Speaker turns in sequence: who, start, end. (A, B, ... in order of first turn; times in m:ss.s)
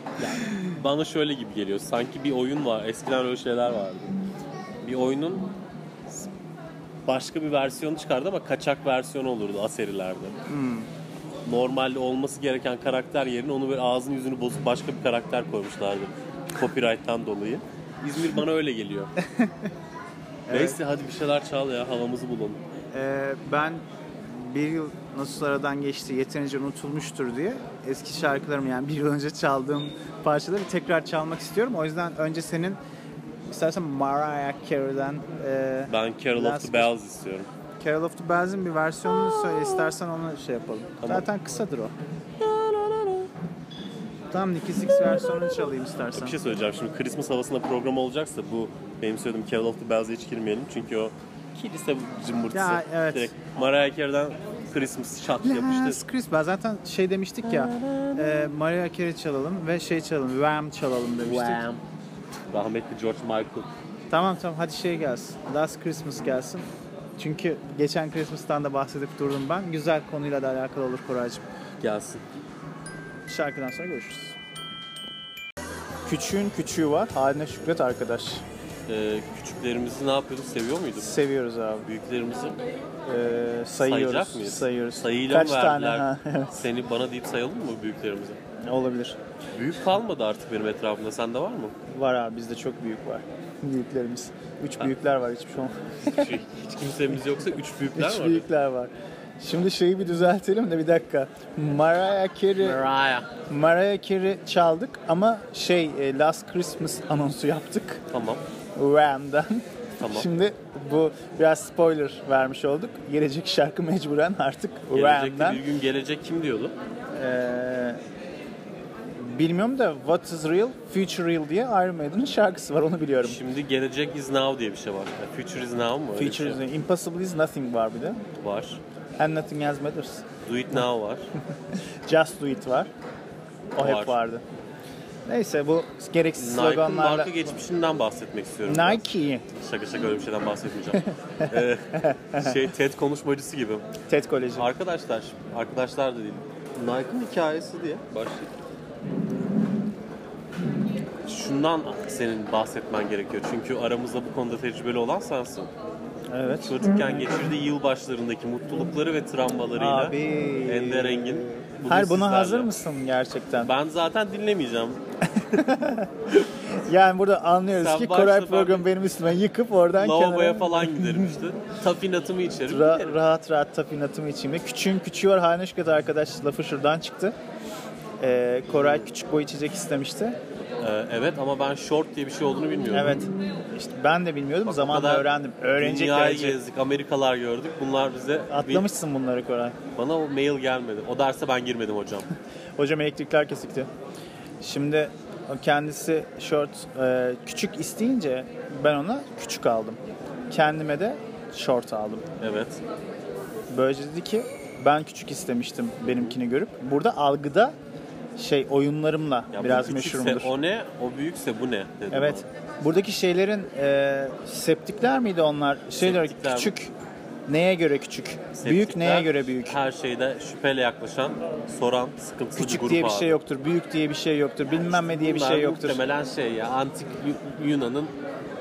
0:00.2-0:04.2 A
0:00.4-0:00.8 B
0:04.8-0:05.5 A
0:07.0-0:10.3 A
0:10.5-0:10.9 B
0:11.4-0:19.1 A
0:19.2-0:19.7 B
0:20.5-0:20.8 B
0:20.5-0:22.6 A
0:22.9-0:32.8 B
0:33.5-0:36.9 B
0:35.9-0:37.5 A
0:37.8-0:41.9 B
0:39.1-0:39.8 A
0:41.0-0:41.3 A
0:42.4-0:43.3 A
0:44.3-0:46.4 B
0:44.9-0:56.0 A
0:52.5-0:53.4 B
0:55.4-1:01.6 B
0:57.4-0:58.5 A
1:01.2-1:01.8 A
1:02.5-1:03.7 A
1:04.1-1:11.4 B
1:11.8-1:12.2 A
1:13.3-1:14.3 B
1:16.0-1:18.4 B
1:18.9-1:21.2 A
1:21.0-1:21.9 B
1:21.8-1:22.6 A
1:23.1-1:26.6 B
1:23.8-1:28.4 A
1:28.6-1:29.2 B
1:29.5-1:31.7 A
1:31.9-1:36.3 B
1:36.0-1:38.4 A
1:37.9-1:42.8 B
1:42.6-1:43.3 A
1:43.5-1:48.0 B
1:48.1-1:48.4 A
1:48.8-1:55.6 B
1:50.0-1:50.3 A
1:54.9-1:56.7 A
1:57.1-1:58.0 B
1:59.2-2:03.4 B
2:03.2-2:06.6 A
2:06.2-2:08.2 B
2:08.4-2:08.8 A
2:09.2-2:10.2 B
2:10.4-2:11.3 A
2:12.1-2:12.9 B
2:13.8-2:14.4 B
2:13.8-2:14.2 A
2:15.3-2:17.5 B
2:16.4-2:23.8 A
2:18.6-2:19.4 B
2:21.0-2:22.6 B
2:24.1-2:24.7 B
2:24.6-2:28.5 A
2:31.2-2:35.7 A
2:36.3-2:36.8 B
2:36.5-2:40.1 A
2:39.8-2:43.7 B
2:40.6-2:42.8 A
2:43.6-2:45.0 A
2:45.3-2:46.1 B
2:46.7-2:51.3 B
2:47.7-2:48.9 A
2:49.9-2:53.2 A
2:52.7-2:57.3 B
2:58.2-3:00.4 B
3:00.8-3:03.2 A
3:02.9-3:06.6 B
3:04.6-3:05.3 A
3:05.8-3:08.9 A
3:08.5-3:09.8 B
3:10.0-3:12.3 A
3:12.8-3:13.9 B
3:14.6-3:20.0 B
3:20.5-3:22.3 B
3:22.4-3:22.8 A
3:23.7-3:27.7 B
3:26.0-3:26.4 A
3:28.4-3:30.5 B
3:29.5-3:32.4 A
3:32.1-3:36.9 B
3:36.0-3:36.7 A
3:37.5-3:39.8 B
3:38.5-3:43.4 A
3:42.6-3:46.0 B
3:44.7-3:48.1 A